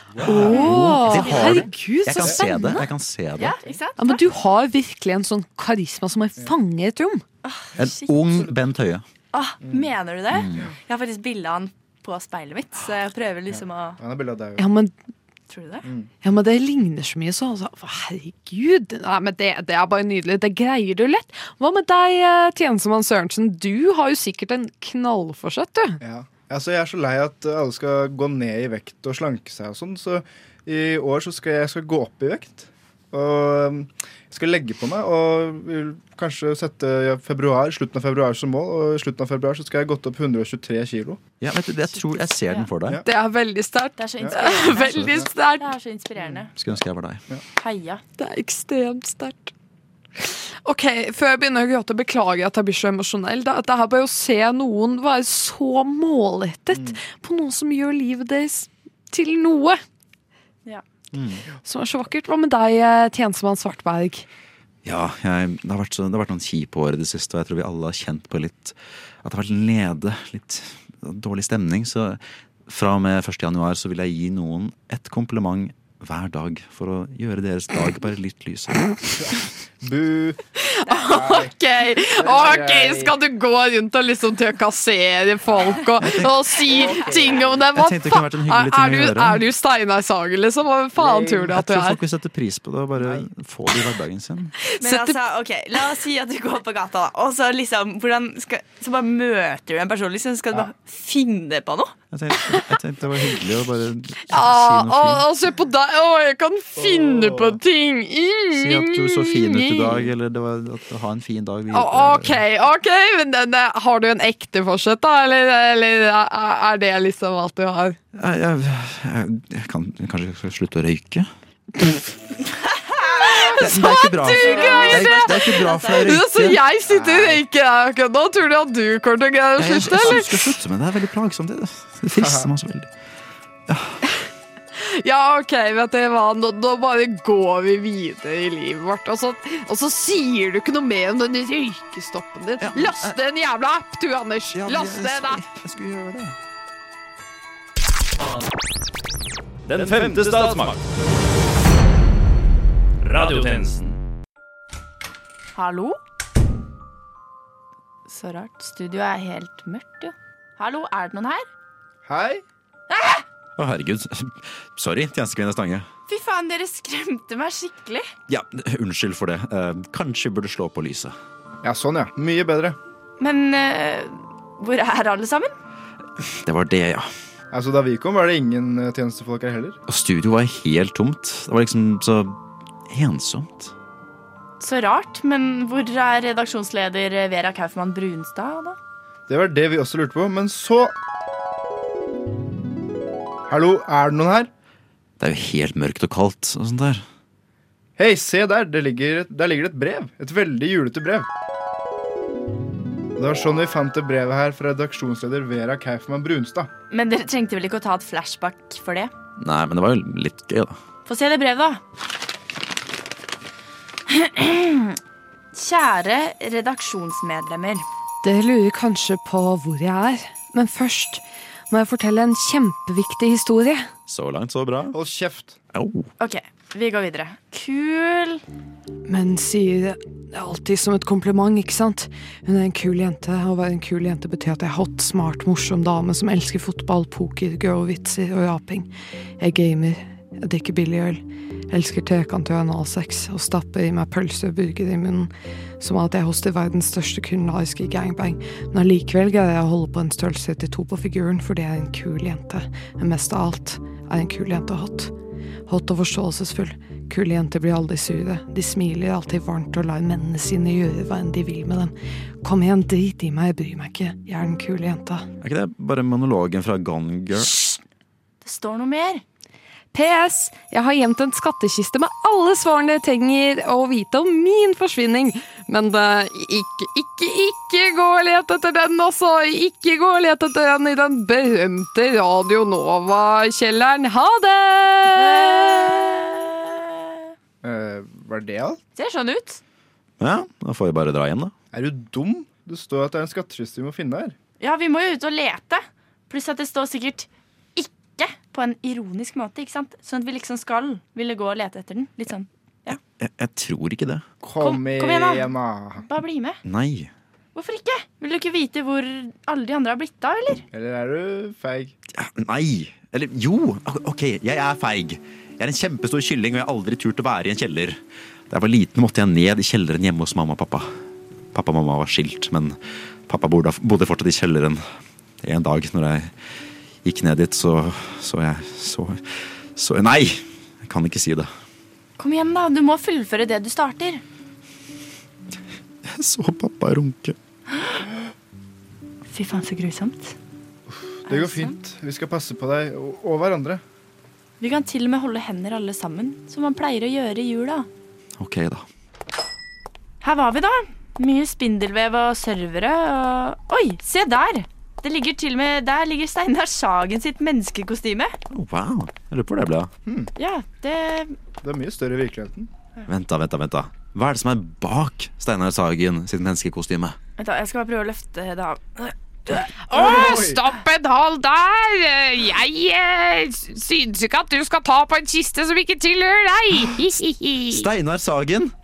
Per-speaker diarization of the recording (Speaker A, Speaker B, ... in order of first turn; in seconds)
Speaker A: 0.2-0.5, 9.7-9.9, 13.5-14.7, 15.8-16.1, 26.0-41.2, 44.2-45.3, 79.2-80.4, 81.0-81.5, 82.1-83.2, 86.7-87.6, 91.0-91.4, 93.0-93.3, 106.8-107.6, 127.0-127.4, 132.2-132.5, 162.1-162.4, 171.6-172.8, 177.5-179.8, 189.3-190.9, 193.5-194.5, 198.0-201.3, 203.2-206.7, 224.9-225.6, 287.6-288.8, 291.7-294.4, 304.4-306.1, 310.7-311.9, 340.9-343.8, 361.6-362.7, 369.9-370.6
Speaker B: 0.2-2.9, 4.0-7.2, 14.6-14.9, 16.2-26.0, 43.0-45.7, 48.2-49.5, 50.2-59.8, 61.6-64.3, 80.6-92.0, 94.7-95.2, 104.3-110.1, 111.7-118.0, 123.2-130.5, 134.8-145.4, 218.2-223.9, 229.1-238.9, 239.4-255.1, 255.7-265.3, 269.9-285.9, 369.9-377.9
Speaker C: 0.2-3.6, 7.8-9.0, 10.3-10.7, 41.4-43.0, 46.6-47.2, 61.1-61.4, 64.8-78.9, 86.0-86.5, 87.7-89.4, 91.2-94.5, 102.1-105.3, 108.5-112.4, 118.1-121.3, 123.5-126.6, 129.6-132.9, 133.7-134.0, 142.6-143.2, 144.5-146.4, 149.8-150.6, 163.6-165.9, 168.3-171.2, 176.3-177.1, 179.9-182.4, 182.9-183.7, 195.2-197.1, 209.4-210.8, 224.1-225.0, 225.7-226.1, 265.4-267.6, 290.2-291.5, 302.9-304.2, 306.6-307.1, 312.1-321.0, 321.5-322.8, 323.3-324.8, 325.4-326.3, 327.0-331.5, 336.0-337.4, 348.4-348.9, 358.5-359.9, 363.1-367.2, 377.7-378.7
Speaker D: 3.4-4.2, 7.4-8.3, 9.3-14.0, 15.5-15.8, 42.0-42.7, 44.0-46.5, 47.6-48.0, 94.8-102.0, 123.0-123.5, 124.2-126.1, 155.6-156.0, 158.1-161.5, 162.9-163.2, 166.1-168.1, 173.2-175.5, 184.6-188.8, 206.9-209.1, 211.1-211.8, 214.1-215.0, 215.5-217.9, 226.2-228.4, 267.4-267.8, 268.4-269.2, 285.1-287.2, 289.0-289.6, 294.6-303.0, 304.6-306.6, 307.6-310.6, 332.2-334.2, 339.3-340.4, 341.3-341.8, 344.6-347.9, 350.2-358.4, 360.4-361.4, 367.4-370.3
Speaker E: 149.7-150.8, 153.0-154.0